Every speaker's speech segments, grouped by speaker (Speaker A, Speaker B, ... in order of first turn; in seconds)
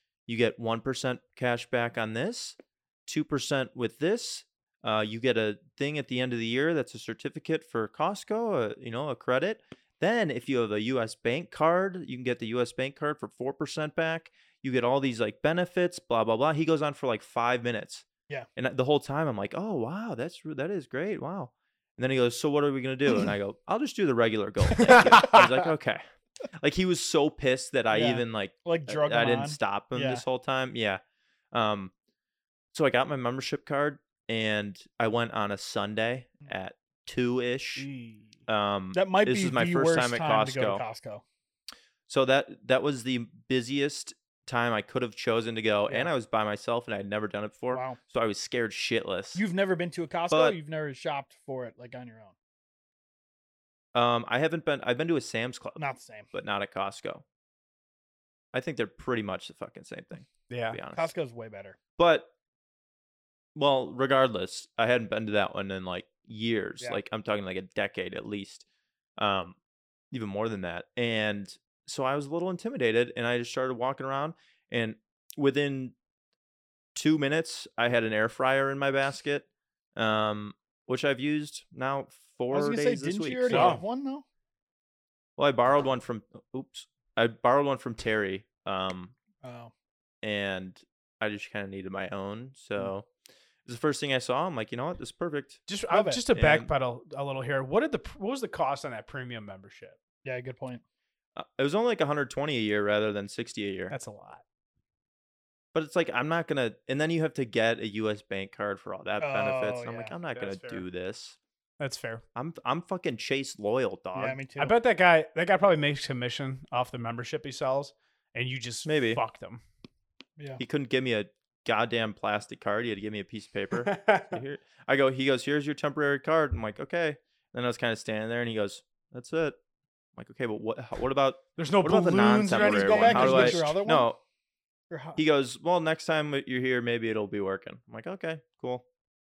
Speaker A: 0.3-26.0, 26.6-31.0, 31.5-31.9, 32.7-37.9, 38.5-40.8, 42.1-49.4, 50.3-50.6, 53.9-55.8, 56.3-57.2, 58.5-61.1, 62.0-62.3, 63.5-68.6, 69.2-69.5, 70.1-75.9, 76.9-83.8, 85.4-89.1, 90.2-93.1, 93.7-95.6, 96.3-96.7, 101.3-103.9, 105.7-111.4, 112.3-114.4, 118.8-119.2, 120.6-129.6, 130.2-134.2, 135.2-138.8
Speaker B: 24.8-25.7, 37.8-38.4, 60.5-60.8, 83.5-83.8, 95.7-100.0, 103.9-104.4, 110.3-110.8, 111.8-112.2, 114.6-119.6, 123.7-124.4, 131.6-133.7
Speaker C: 27.9-30.2, 38.9-41.2, 47.7-48.0, 49.3-52.3, 55.8-56.3, 60.9-61.8, 82.5-84.2, 89.4-89.7, 95.9-96.2, 100.2-100.8, 109.2-110.1, 114.1-114.8, 132.5-134.1, 134.9-135.2